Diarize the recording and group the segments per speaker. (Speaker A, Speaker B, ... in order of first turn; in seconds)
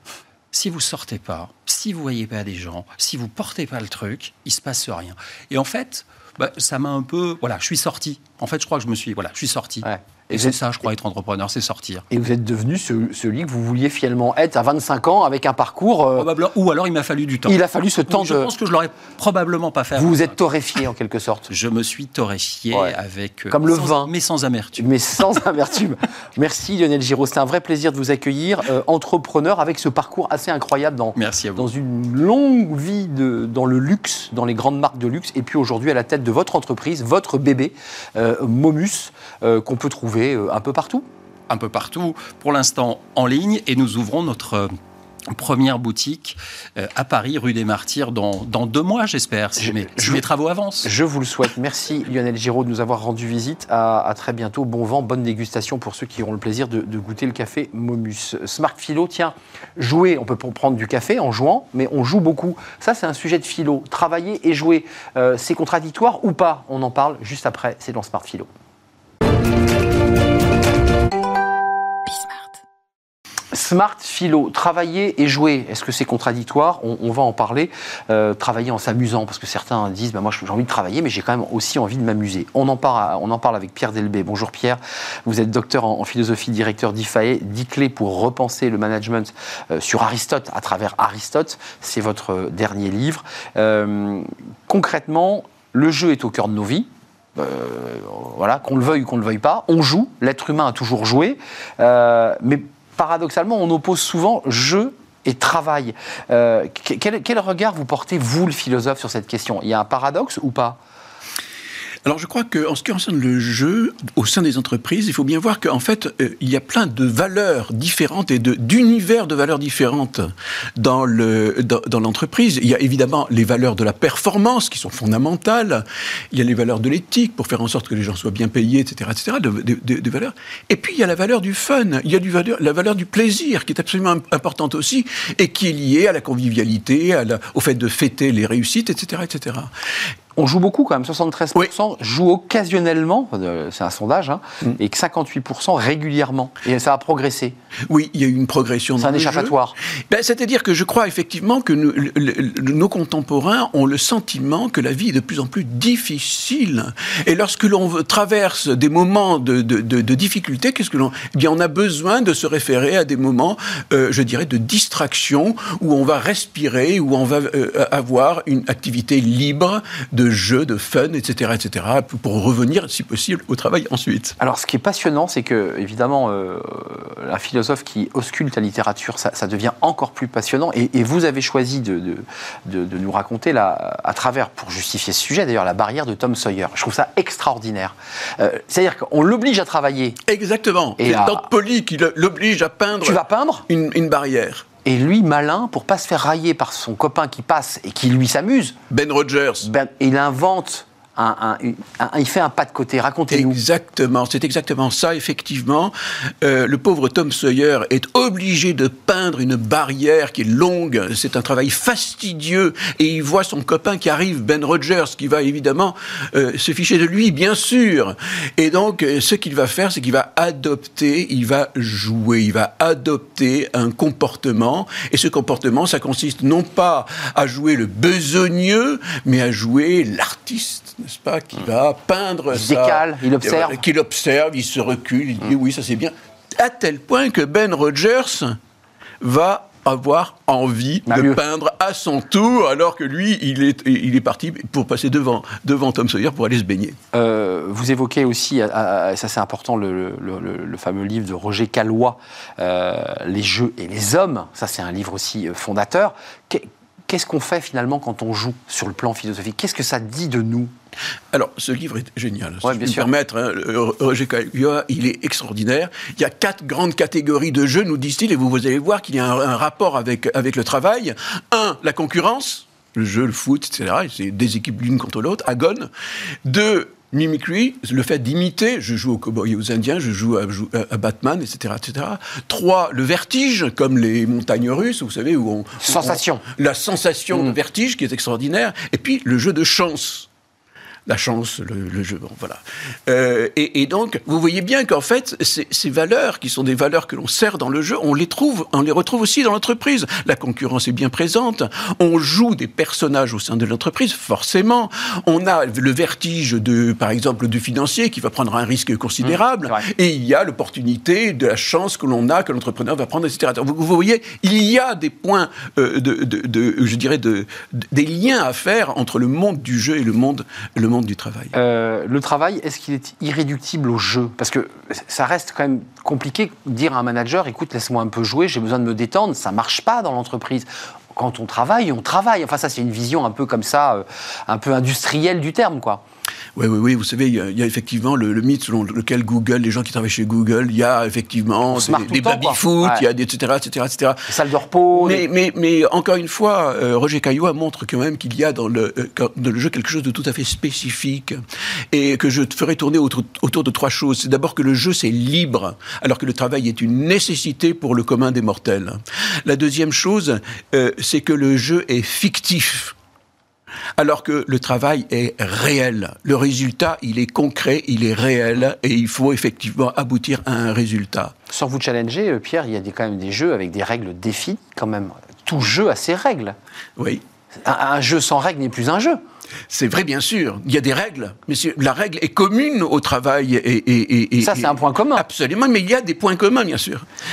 Speaker A: 0.5-12.0, 16.1-20.4, 21.5-24.9, 31.1-31.7, 41.5-44.7, 45.3-50.9
Speaker B: 9.8-10.6, 12.1-16.3, 17.4-18.5, 19.9-21.5, 23.5-24.1, 24.8-41.0, 49.6-50.2, 50.8-68.5, 73.5-110.8, 140.3-147.5, 149.0-149.7, 174.4-190.2, 191.0-191.4, 193.0-193.7, 194.8-198.8, 199.6-203.6, 232.5-233.8, 241.1-241.4, 247.1-260.7, 262.6-263.1, 285.8-286.4, 309.2-309.8, 321.5-336.0, 341.7-343.0, 344.3-345.2, 371.5-376.6, 377.5-379.2, 384.4-385.2
Speaker C: 112.0-139.7, 147.9-149.6, 150.1-174.3, 190.3-194.7, 198.9-199.7, 203.3-238.6, 239.2-247.0, 261.3-275.9, 276.4-290.3, 291.1-321.5, 336.6-344.3, 344.9-351.4, 351.9-362.9, 364.0-371.3, 377.0-377.2, 379.7-387.1